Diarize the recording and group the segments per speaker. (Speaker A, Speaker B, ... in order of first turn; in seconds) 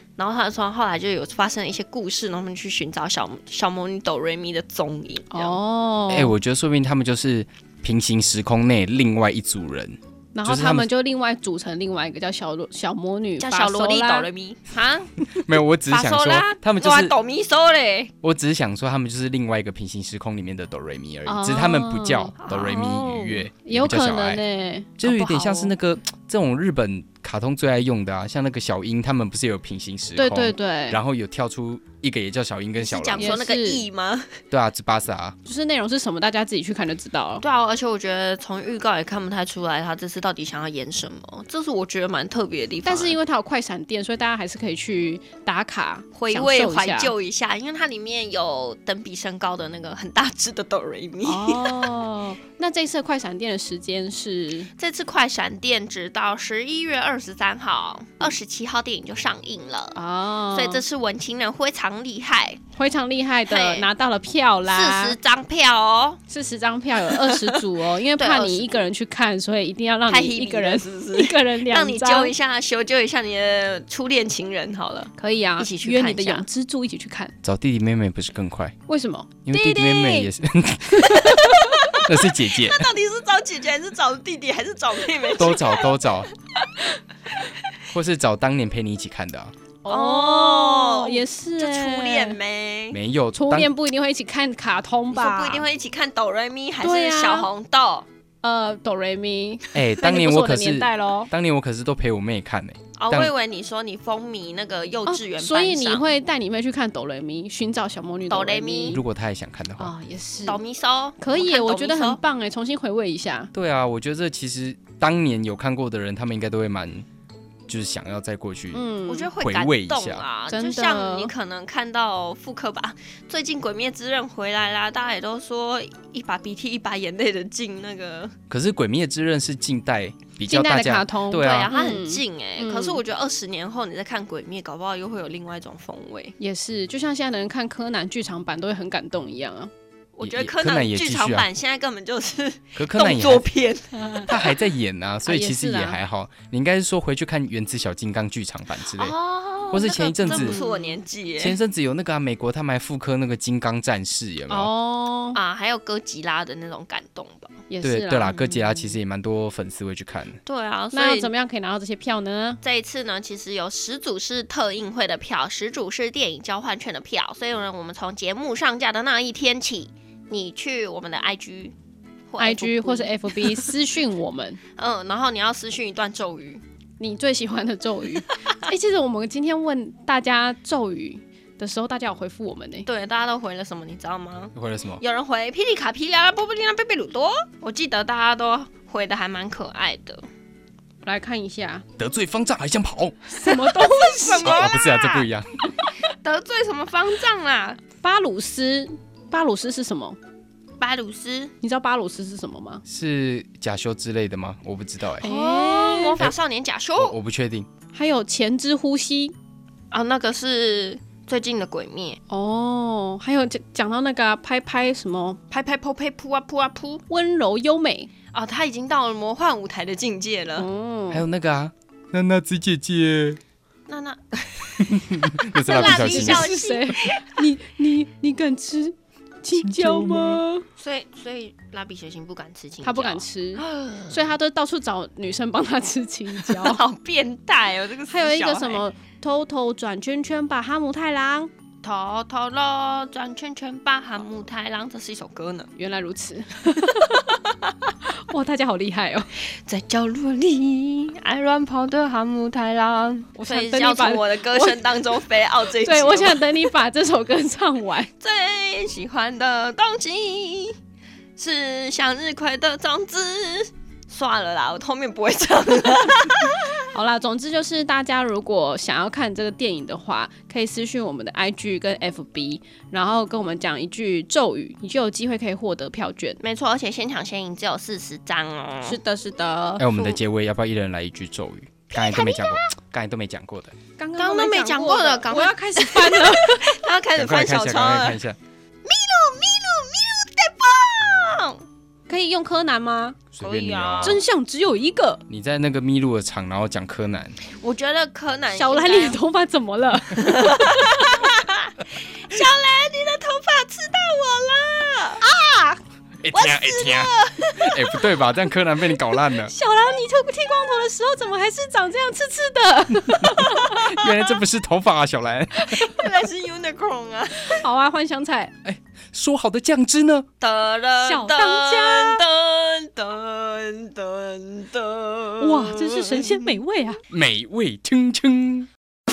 Speaker A: 0.2-5.6, 13.4-15.2, 15.9-18.1, 22.4-23.4, 25.1-25.7, 32.8-34.3, 37.4-43.2, 46.1-51.9, 54.8-60.0, 60.5-62.6, 63.5-63.9, 64.7-66.2, 67.1-67.6, 68.2-68.8, 70.1-76.4, 81.6-85.9, 89.9-93.0, 95.1-98.1, 103.0-106.1, 108.3-109.0, 110.4-112.2, 119.1-128.3, 131.3-136.3, 140.2-144.3, 148.9-151.6, 155.3-157.5, 160.4-161.3, 162.6-171.8, 172.3-173.8, 174.8-176.6, 182.8-190.3, 193.5-195.3, 196.0-197.8, 200.8-201.5, 205.2-207.2, 209.9-212.2, 215.5-217.0, 218.3-220.7, 223.9-227.3, 230.8-234.3, 236.4-238.8, 241.8-245.7, 247.1-247.7, 249.6-256.4, 258.2-260.8, 261.4-266.7, 276.4-279.0, 281.9-282.6, 284.2-288.2, 288.9-291.6, 293.4-294.2, 297.5-299.2, 300.2-305.2, 306.3-307.9, 315.7-317.6, 320.4-326.6
Speaker B: 5.3-6.3, 10.3-14.3, 21.3-22.4, 23.6-25.0, 30.1-31.0, 33.1-33.8, 35.4-37.4, 42.9-47.1, 51.2-54.7, 59.9-60.8, 62.8-65.2, 66.3-72.3, 75.2-77.3, 78.9-80.3, 80.9-81.7, 89.8-92.4, 93.3-95.7, 96.8-97.5, 98.4-101.3, 105.1-109.0, 109.8-110.6, 111.2-113.5, 118.7-119.3, 120.5-121.3, 130.5-133.0, 136.4-139.7, 143.9-144.4, 145.3-146.0, 150.2-151.0, 154.5-155.4, 157.7-158.9, 160.9-162.6, 172.4-174.6, 177.0-182.9, 191.1-191.8, 193.3-194.7, 198.0-200.2, 201.6-202.8, 205.2-206.2, 207.9-209.3, 212.3-215.4, 217.1-218.1, 220.6-221.2, 225.6-230.6, 232.8-236.8, 238.1-241.5, 245.8-247.4, 248.2-249.3, 253.4-255.1, 255.7-258.1, 266.9-276.4, 278.9-279.9, 284.0-286.8, 292.1-293.2, 294.0-295.2, 298.5-301.3, 305.2-305.8, 309.4-314.2, 317.5-318.5, 321.0-322.2, 325.4-327.0
Speaker C: 6.1-10.9, 15.3-17.1, 18.2-24.4, 25.0-33.4, 34.5-35.4, 77.4-78.8, 79.5-82.9, 85.4-86.3, 87.9-89.5, 92.9-93.7, 99.7-103.3, 108.9-109.9, 113.5-117.1, 117.7-118.9, 119.4-120.2, 128.5-131.7, 140.2-141.5, 142.8-143.5, 144.3-149.2, 149.7-150.6, 151.4-154.7, 157.8-160.4, 184.5-185.0, 192.0-193.3, 194.4-195.5, 202.8-205.2, 207.0-207.7, 221.1-223.4, 224.9-226.5, 229.6-230.4, 279.8-283.7, 287.1-288.4, 293.3-294.2, 295.3-297.4, 306.2-309.5, 313.2-315.9, 318.6-320.3, 327.1-328.7